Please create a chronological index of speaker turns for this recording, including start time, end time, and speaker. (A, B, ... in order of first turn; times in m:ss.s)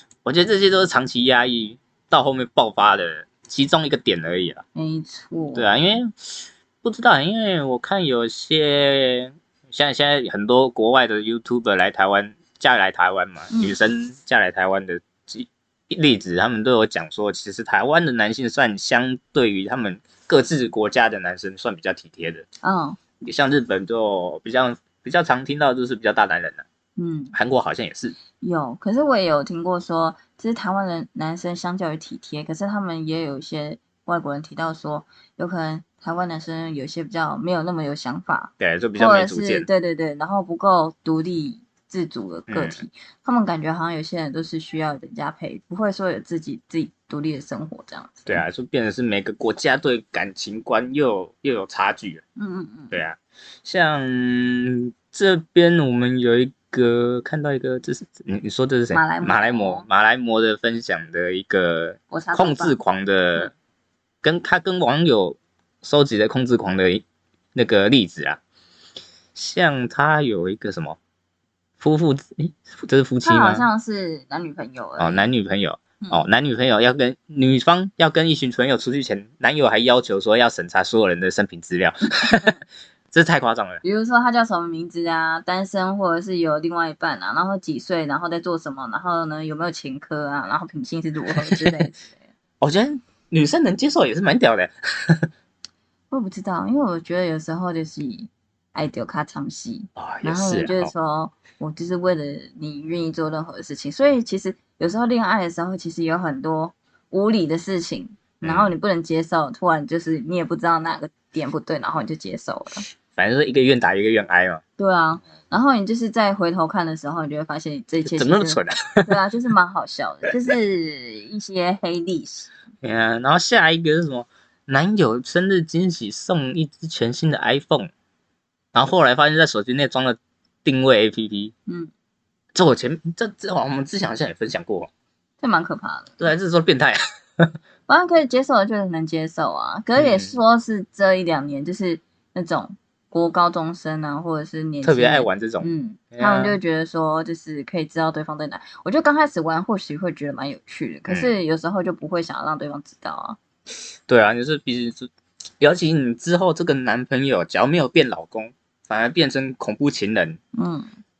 0:00.2-0:04.6 A
0:04.7-0:05.7 B
0:05.5-0:22.4 A
0:13.5-0:13.8 B
0:22.6-0:23.0 B
0:23.2-0:26.6 A
0:27.0-0:27.3 B
0:27.3-0:28.2 A
0:28.4-0:48.4 B
0:38.6-0:39.7 A
0:42.5-0:42.8 A
0:48.3-0:52.2 A
0:52.4-0:53.0 B
0:52.9-1:03.5 A
0:58.9-0:59.9 B
1:02.1-1:02.8 B
1:04.2-1:07.0 A
1:07.5-1:08.4 A
1:09.3-1:11.0 A
1:11.8-1:13.7 A
1:13.2-1:15.2 B
1:15.0-1:22.6 A
1:23.1-1:23.8 A
1:23.8-1:32.3 B
1:31.3-1:31.8 A
1:32.6-1:35.3 A
1:36.1-1:52.8 B
1:40.0-1:40.9 A
1:48.4-1:48.7 A
1:53.1-1:54.6 A
1:54.8-2:02.5 B
1:58.0-1:59.1 A
2:02.8-2:07.9 A
2:08.7-2:11.5 A
2:12.5-2:14.9 A
2:15.4-2:16.2 B
2:16.2-2:17.5 A
2:17.9-2:33.4 B
2:20.0-2:20.3 A
2:24.8-2:26.6 A
2:34.1-2:40.4 A
2:40.5-2:41.0 B